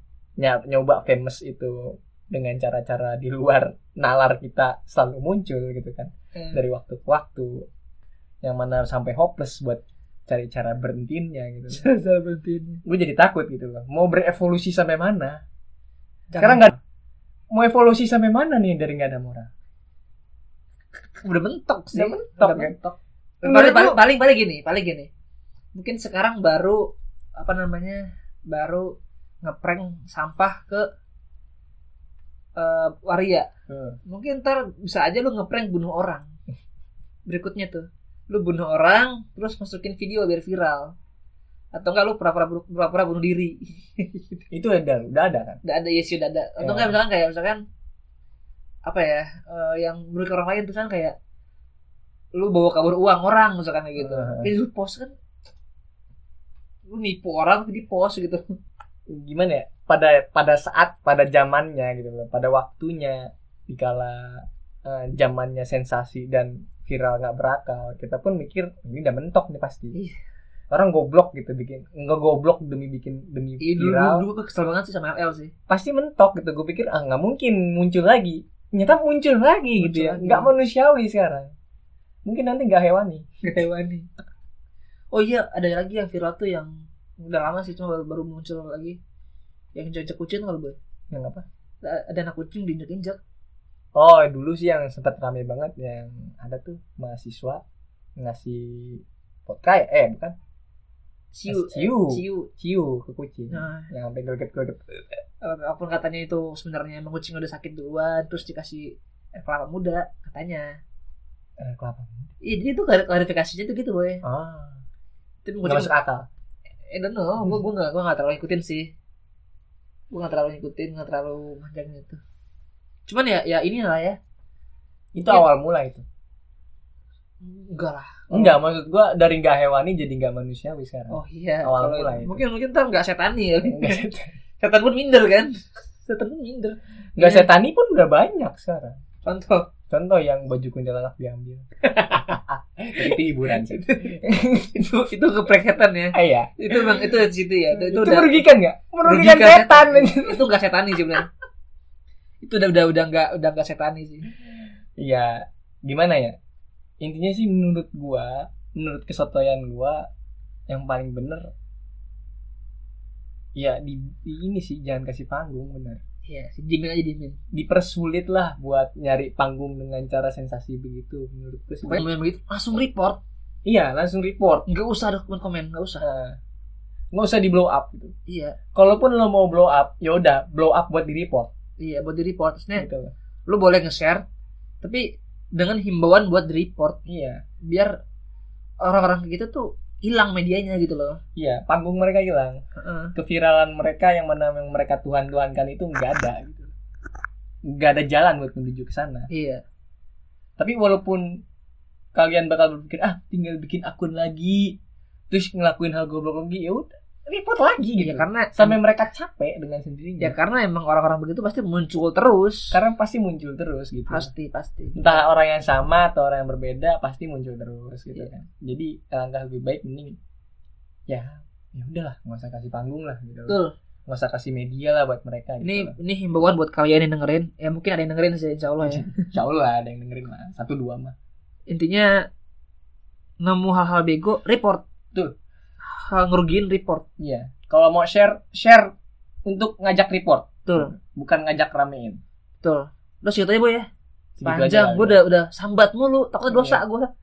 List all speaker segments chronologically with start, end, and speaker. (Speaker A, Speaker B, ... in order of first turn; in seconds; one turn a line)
Speaker A: 0.4-7.7
Speaker B: 6.3-6.6
Speaker A: 8.4-11.8
Speaker B: 11.7-12.8
Speaker A: 12.8-15.4
Speaker B: 16.3-16.8
Speaker A: 16.4-16.7
Speaker A: 17.5-19.5
Speaker B: 21.0-25.1
Speaker A: 21.9-22.8
Speaker A: 23.4-24.0
Speaker B: 25.7-30.9
Speaker B: 32.5-33.5
Speaker A: 33.7-34.0
Speaker B: 34.0-36.3
Speaker B: 37.3-40.9
Speaker B: 41.7-44.4
Speaker A: 44.5-45.6
Speaker B: 45.6-47.6
Speaker A: 46.6-47.0
Speaker B: 48.8-51.2
Speaker B: 52.3-55.1
Speaker A: 54.0-54.5
Speaker B: 56.9-58.5
Speaker A: 59.1-70.0
Speaker A: 70.7-74.2
Speaker B: 73.6-75.5
Speaker A: 75.7-81.5
Speaker B: 79.8-80.5
Speaker A: 82.2-83.2
Speaker B: 83.4-84.1
Speaker B: 85.1-89.0
Speaker B: 89.7-90.8
Speaker A: 91.1-91.4
Speaker B: 91.8-93.2
Speaker A: 93.9-97.6
Speaker A: 98.2-100.3
Speaker B: 101.3-102.5
Speaker A: 101.5-105.0
Speaker B: 103.5-103.9
Speaker B: 105.4-110.8
Speaker A: 111.6-112.3
Speaker B: 112.4-114.2
Speaker A: 114.2-114.8
Speaker B: 115.4-115.9
Speaker A: 115.6-116.3
Speaker B: 116.9-118.9
Speaker B: 120.1-122.2
Speaker B: 123.1-124.2
Speaker A: 125.1-126.0
Speaker B: 127.4-128.6
Speaker A: 128.3-132.4
Speaker B: 131.1-134.0
Speaker A: 133.7-134.3
Speaker B: 134.6-137.5
Speaker A: 137.2-139.0
Speaker B: 139.2-139.7
Speaker A: 139.9-144.9
Speaker B: 141.9-142.3
Speaker B: 143.0-144.2
Speaker B: 144.7-148.5
Speaker A: 146.1-147.2
Speaker A: 147.7-150.4
Speaker B: 149.0-151.3
Speaker B: 152.4-154.3
Speaker A: 155.0-156.3
Speaker A: 157.0-160.1
Speaker A: 160.7-161.5
Speaker A: 163.6-166.0
Speaker B: 166.2-167.4
Speaker A: 167.5-172.1
Speaker B: 171.8-173.2
Speaker A: 173.6-174.6
Speaker B: 174.7-176.0
Speaker A: 176.0-176.4
Speaker A: 177.1-178.1
Speaker B: 178.3-178.6
Speaker A: 178.7-181.5
Speaker B: 181.8-182.9
Speaker A: 182.8-183.1
Speaker B: 183.5-184.2
Speaker B: 184.8-187.0
Speaker A: 187.1-187.4
Speaker B: 187.6-188.0
Speaker B: 188.8-191.2
Speaker A: 191.3-192.6
Speaker B: 192.8-193.1
Speaker A: 193.2-196.7
Speaker A: 197.6-199.3
Speaker B: 199.3-199.6
Speaker A: 200.6-201.4
Speaker A: 202.1-204.8
Speaker A: 205.3-210.4
Speaker B: 208.0-208.8
Speaker B: 210.2-212.8
Speaker A: 212.7-214.3
Speaker B: 214.1-215.2
Speaker A: 214.9-220.2
Speaker A: 221.1-225.9
Speaker B: 223.5-223.7
Speaker B: 225.6-229.3
Speaker A: 228.8-231.1
Speaker B: 231.7-232.3
Speaker B: 233.4-234.8
Speaker B: 235.9-237.1
Speaker A: 237.2-238.9
Speaker A: 239.4-242.2
Speaker B: 240.7-240.9
Speaker B: 242.6-243.9
Speaker A: 244.4-245.2
Speaker B: 244.4-247.1
Speaker A: 246.5-246.8